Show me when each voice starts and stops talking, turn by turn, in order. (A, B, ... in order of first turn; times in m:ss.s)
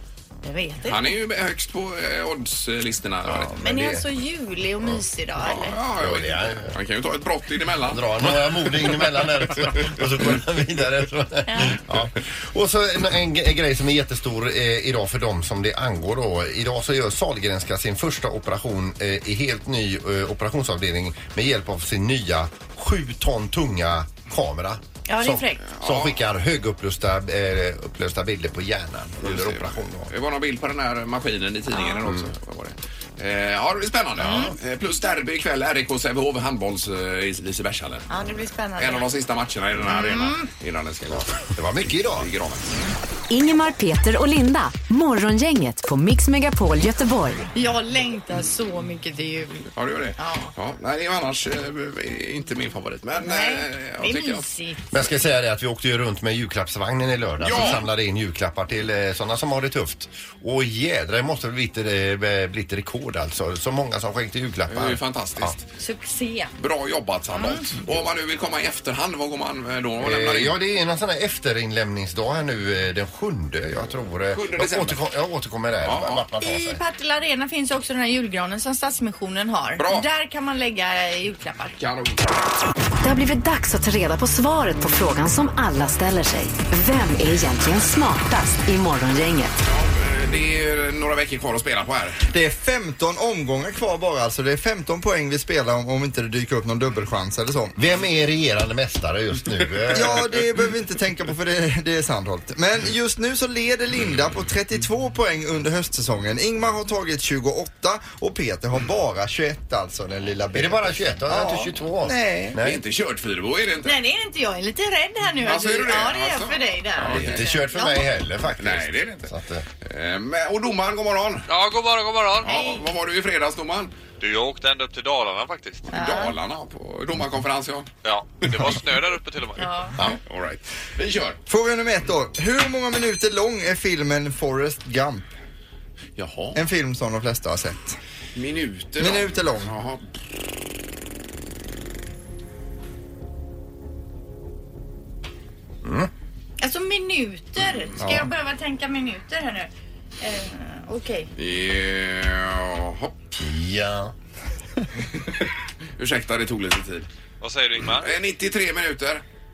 0:00.4-0:01.2 A
0:00.9-0:04.0 B
0:03.3-0:04.0 C
0:03.6-0:05.8 A
0:05.4-0:10.3 B
0:06.0-0:06.8 C
0:07.9-0:30.1 C
0:11.5-0:11.8 A
0:25.1-0:25.6 A
0:25.8-0:26.2 B
0:29.2-0:38.1 B
0:31.7-0:32.1 A
0:32.1-0:32.3 C
0:34.2-0:34.5 A
0:34.2-0:34.5 C
0:38.1-0:39.1 A
0:38.8-0:42.7 B
0:39.9-0:40.5 A
0:41.1-0:42.3 C
0:43.3-0:47.4 D
0:47.6-0:50.5 A
0:49.8-0:54.5 B
0:53.2-0:55.1 A
0:54.9-1:05.6 C
0:57.4-0:57.8 B
1:04.7-1:05.6 B
1:05.8-1:06.5 A
1:06.6-1:10.6 B
1:07.4-1:07.7 A
1:10.0-1:16.8 C
1:14.3-1:15.0 B
1:15.8-1:16.2 B
1:16.4-1:21.8 A
1:19.8-1:20.1 B
1:21.8-1:22.3 B
1:23.0-1:29.5 D
1:29.6-1:32.3 B
1:32.3-1:37.8 E
1:37.8-1:40.3 C
1:39.9-1:52.6 E
1:50.6-1:52.8 C
1:52.6-1:54.0 B
1:53.8-1:58.1 A
1:55.4-1:57.5 B
1:57.0-1:59.7 C
1:58.6-2:01.5 B
2:01.5-2:02.6 F
2:02.4-2:02.8 A
2:02.4-2:03.9 B
2:04.2-2:05.9 F
2:05.9-2:06.4 A
2:05.9-2:07.9 B
2:08.0-2:09.8 F
2:09.6-2:09.9 A
2:10.0-2:11.4 B
2:11.5-2:15.3 E
2:16.2-2:16.6 B
2:16.6-2:18.0 E
2:18.4-2:20.0 B
2:19.0-2:19.7 E
2:25.8-2:26.1 C
2:26.6-2:29.7 A
2:28.0-2:28.3 E
2:30.2-2:31.3 A
2:31.4-2:33.2 B
2:33.4-2:34.1 C
2:35.1-2:35.5 B
2:36.0-2:37.1 B
2:37.4-2:38.2 F
2:37.8-2:39.2 B